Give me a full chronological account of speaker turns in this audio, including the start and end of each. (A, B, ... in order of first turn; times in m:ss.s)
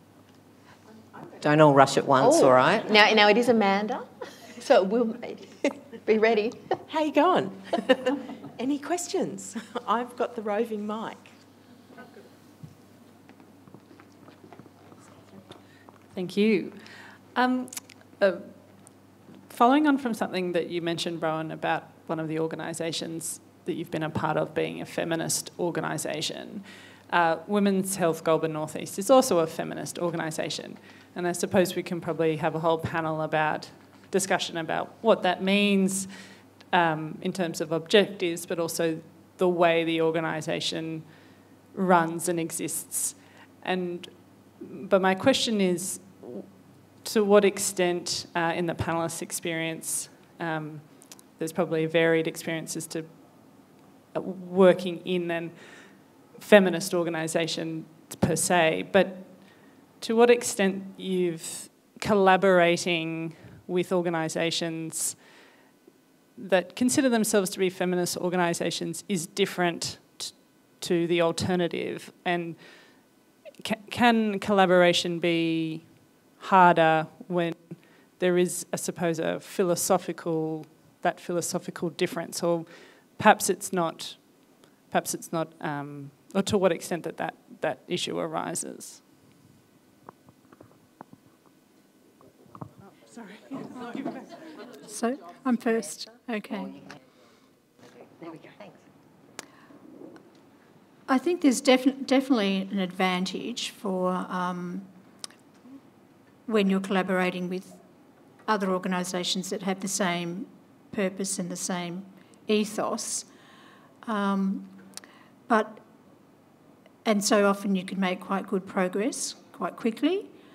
0:01.3-0:02.9 A
0:02.2-0:06.8 B
0:06.9-0:11.3 C
0:16.1-1:05.4 D
1:06.4-1:29.1 D
1:34.7-1:36.8 E
1:38.0-1:38.8 A
1:41.1-1:44.9 E
1:46.5-1:47.8 E
1:48.4-1:53.3 E
1:54.0-1:54.7 E
1:55.5-1:55.8 E
1:57.0-2:00.3 E